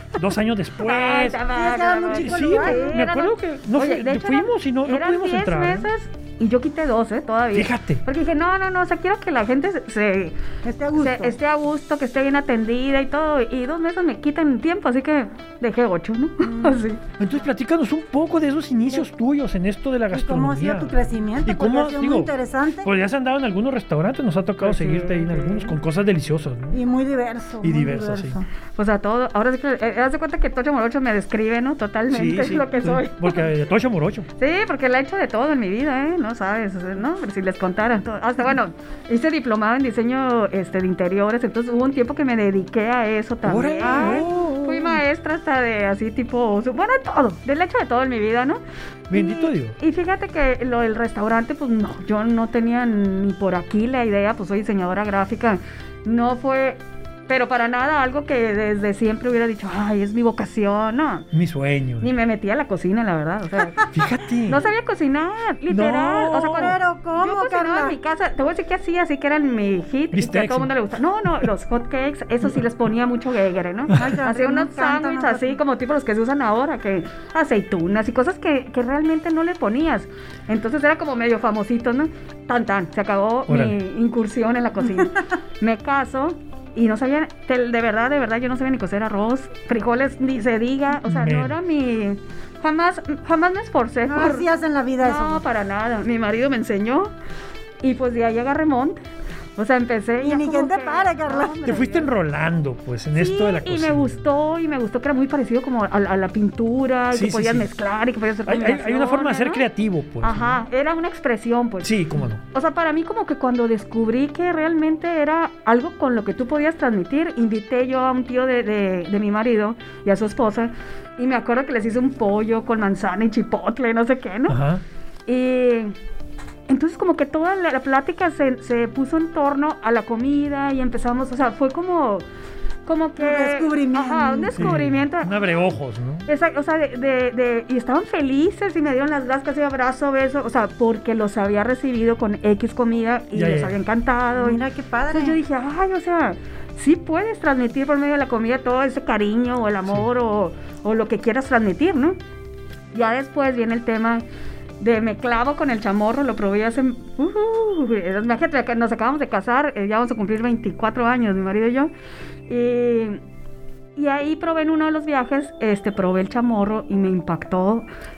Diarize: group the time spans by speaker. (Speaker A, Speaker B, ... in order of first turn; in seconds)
Speaker A: 0.1-1.4, 2.1-5.9, 7.5-8.0, 17.2-22.3, 22.8-26.8, 27.6-28.4, 32.1-34.3, 43.4-45.0, 49.1-49.8, 61.3-62.1, 63.9-64.6, 65.7-66.8, 70.1-70.7, 83.5-83.8, 91.0-91.5, 101.6-104.2, 107.1-107.7, 108.5-110.6, 111.8-112.4, 124.5-124.8, 134.5-136.3, 143.3-143.8
Speaker B: 0.8-10.3, 10.9-17.0, 24.6-25.8, 28.8-33.5, 34.4-48.6, 49.1-61.3, 62.0-63.9, 64.5-94.5, 95.0-97.1, 97.8-99.0, 99.6-102.1, 103.1-109.6, 110.2-112.0, 112.5-124.6, 125.3-125.9, 126.7-132.2, 132.8-135.4, 136.2-152.2, 152.9-154.2, 154.8-161.9, 162.5-163.2, 163.9-167.9
Speaker C: 1.5-3.0, 10.6-11.4, 16.4-16.8, 20.1-22.9, 26.7-28.4, 43.8-44.3, 66.5-68.0, 73.9-75.6, 94.1-95.4, 100.2-101.7, 133.2-134.8, 144.4-145.4